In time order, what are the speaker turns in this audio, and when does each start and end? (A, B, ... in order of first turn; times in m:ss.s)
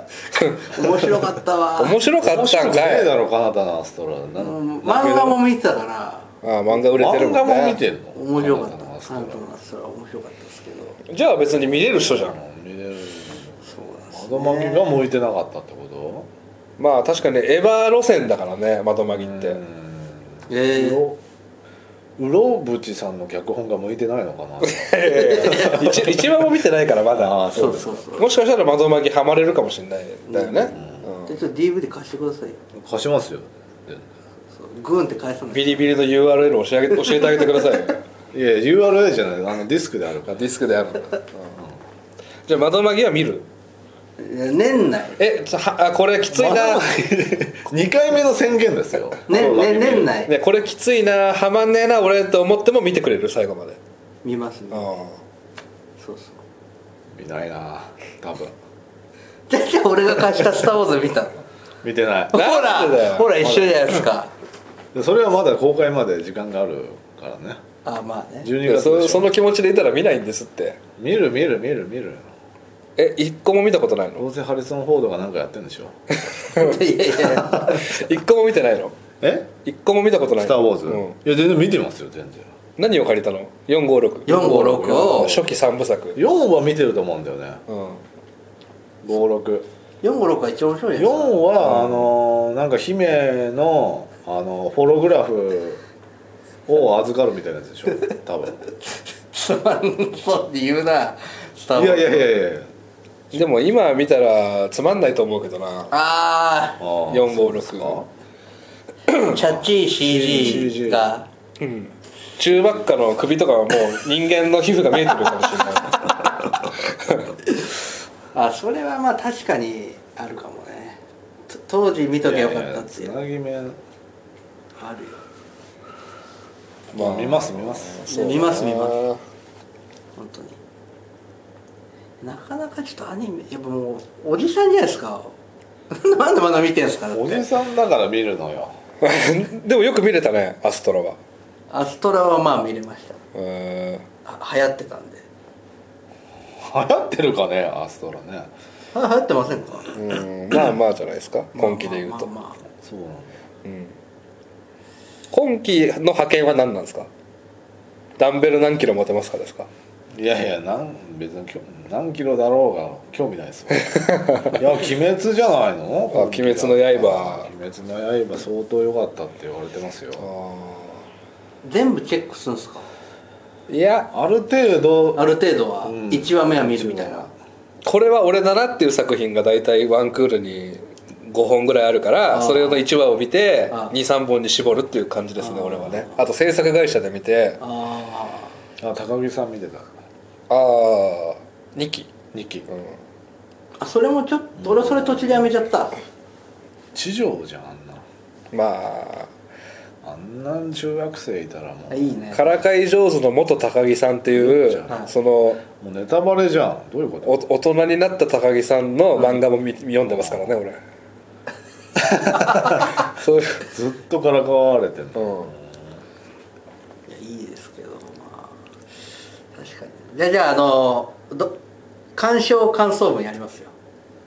0:00.4-0:00.9 A
0:00.7-0:02.1 B
0:01.8-0:03.2 A
0:02.2-0:05.4 C
0:04.4-0:06.3 B
0:05.0-0:05.4 A
0:06.4-0:07.8 A
0:06.8-0:09.5 C
0:08.1-0:11.0 B
0:11.0-0:12.4 A
0:11.5-0:13.6 C
0:13.6-0:15.0 B
0:14.1-0:16.3 C
0:16.8-0:19.6 A
0:19.1-0:21.2 C
0:20.5-0:21.0 B
0:22.2-0:26.2 C
0:24.7-0:31.3 A
0:25.1-0:25.8 B
0:27.1-0:27.9 C
0:27.5-0:28.3 B
0:30.3-0:30.7 B
0:30.7-0:31.1 C
0:31.2-0:32.6 B
0:32.7-0:34.1 C
0:34.5-0:35.9 B
0:35.5-0:38.0 A
0:38.3-0:40.4 C
0:40.3-0:41.5 A
0:42.4-0:43.4 A
0:44.2-0:45.2 B
0:45.2-0:46.9 A
0:46.3-0:50.1 C
0:49.3-0:50.3 B
0:50.2-0:53.8 A
0:54.2-0:54.9 B
0:54.7-0:55.1 A
0:56.0-0:56.4 B
0:57.1-0:58.5 C
0:59.5-1:01.4 B
1:01.8-1:02.4 C
1:02.3-1:04.3 B
1:02.3-1:03.4 A
1:03.4-1:03.9 C
1:04.9-1:07.6 C
1:07.8-1:08.5 B
1:08.4-1:09.3 C
1:08.6-1:10.8 A
1:11.0-1:12.3 C
1:13.0-1:14.2 A
1:14.2-1:15.9 C
1:16.4-1:16.7 A
1:16.5-1:17.9 B
1:17.6-1:19.0 A
1:19.2-1:19.5 C
1:19.6-1:21.2 A
1:20.3-1:22.5 C
1:22.8-1:26.2 A
1:24.2-1:25.4 B
1:26.1-1:27.6 C
1:27.7-1:28.0 A
1:29.0-1:29.6 C
1:30.0-1:31.5 B
1:30.9-1:35.8 C
1:31.6-1:32.1 A
1:36.7-1:38.6 C
1:39.3-1:42.3 B
1:41.7-1:42.7 C
1:43.3-1:45.9 A
1:45.9-1:46.8 B
1:46.8-1:48.0 C
1:47.1-1:48.0 A
1:49.1-1:49.4 A
1:49.2-1:51.3 B
1:49.4-1:51.1 C
1:51.6-1:57.3 A
1:58.3-2:03.2 B
2:02.2-2:03.8 C
2:04.8-2:05.2 B
2:06.9-2:08.0 C
2:06.9-2:09.2 A
2:08.1-2:09.0 B
2:10.2-2:10.6 B
2:12.2-2:15.3 B
2:15.9-2:17.5 B
2:17.1-2:18.7 C
2:19.0-2:21.2 A
2:21.7-2:23.2 B
2:23.3-2:24.0 A
2:24.2-2:25.2 B
2:26.6-2:28.5 C
2:28.9-2:29.9 B
2:29.9-2:32.3 A
2:31.5-2:32.6 B
2:32.8-2:33.4 C
2:33.6-2:33.9 A
2:35.3-2:37.1 A
2:38.2-2:39.7 A
2:40.1-2:50.3 C
2:43.8-2:44.5 A
2:46.1-2:47.5 A
2:50.2-2:50.9 A
2:51.6-2:52.8 B
2:53.7-2:54.1 A
2:54.1-2:57.3 C
2:55.2-2:57.3 B
2:57.8-3:07.6 A
3:02.3-3:02.9 B
3:03.7-3:03.9 B
3:05.4-3:06.2 B
3:07.6-3:08.6 B
3:08.8-3:09.9 C
3:10.5-3:12.1 A
3:12.3-3:12.7 C
3:13.8-3:16.0 B
3:14.6-3:15.5 C
3:16.9-3:18.0 C
3:18.5-3:19.3 A
3:20.0-3:22.6 C
3:21.9-3:22.5 B
3:22.3-3:25.6 A
3:24.3-3:25.0 C
3:25.8-3:27.4 C
3:27.2-3:30.8 A
3:30.0-3:30.6 C
3:32.4-3:32.8 B
3:32.7-3:33.6 A
3:33.7-3:35.8 C
3:35.1-3:35.5 A
3:37.1-3:38.6 B
3:39.5-3:41.6 B
3:42.2-3:43.7 B